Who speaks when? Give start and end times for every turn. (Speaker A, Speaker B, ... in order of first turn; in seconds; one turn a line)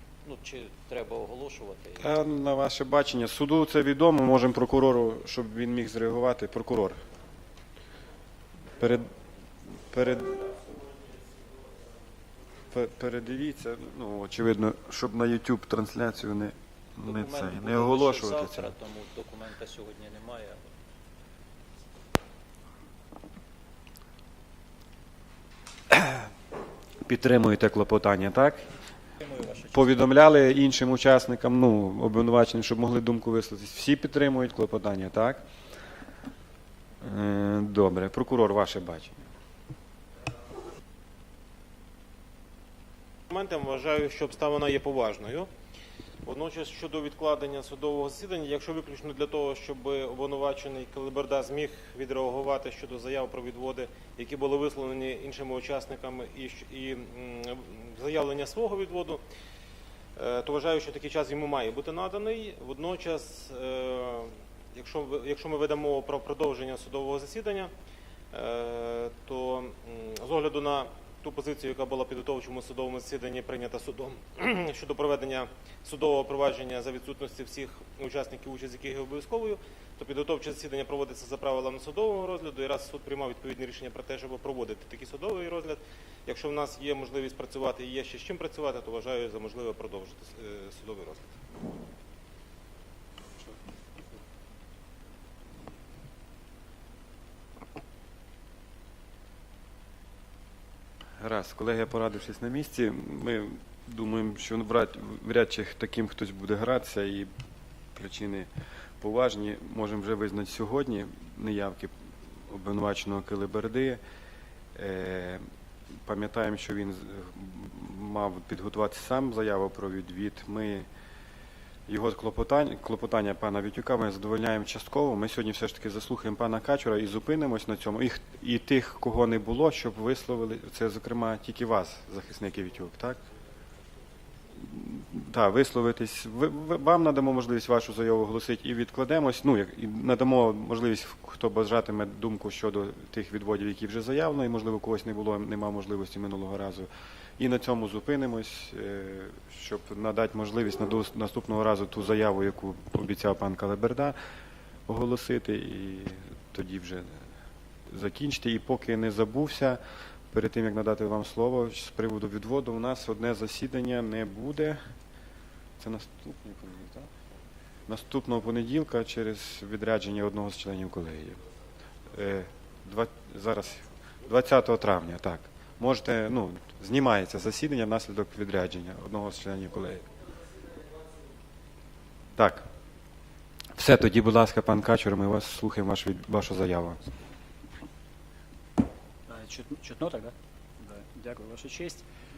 Speaker A: 0.2-2.0
Speaker B: 2.0-7.0
Speaker B: 8.8-9.1
Speaker B: 9.9-10.5
Speaker B: 12.7-18.7
Speaker A: 17.0-20.6
Speaker B: 25.9-26.2
Speaker B: 27.0-28.6
Speaker A: 29.2-30.1
Speaker B: 29.7-35.4
Speaker B: 37.0-39.2
Speaker C: 43.3-45.5
Speaker C: 46.3-57.5
Speaker C: 58.0-59.2
Speaker C: 60.2-64.2
Speaker C: 64.8-67.7
Speaker C: 68.4-91.3
Speaker B: 101.2-107.3
Speaker B: 108.0-108.5
Speaker B: 109.0-111.9
Speaker B: 112.5-114.0
Speaker B: 114.8-115.4
Speaker B: 116.0-120.9
Speaker B: 121.9-133.2
Speaker B: 134.6-146.9
Speaker B: 147.4-154.2
Speaker B: 154.9-157.1
Speaker B: 157.9-159.8
Speaker B: 160.3-164.8
Speaker B: 165.8-167.1
Speaker B: 167.9-171.4
Speaker B: 172.1-180.0
Speaker B: 182.4-182.7
Speaker B: 183.8-187.1
Speaker D: 189.3-192.0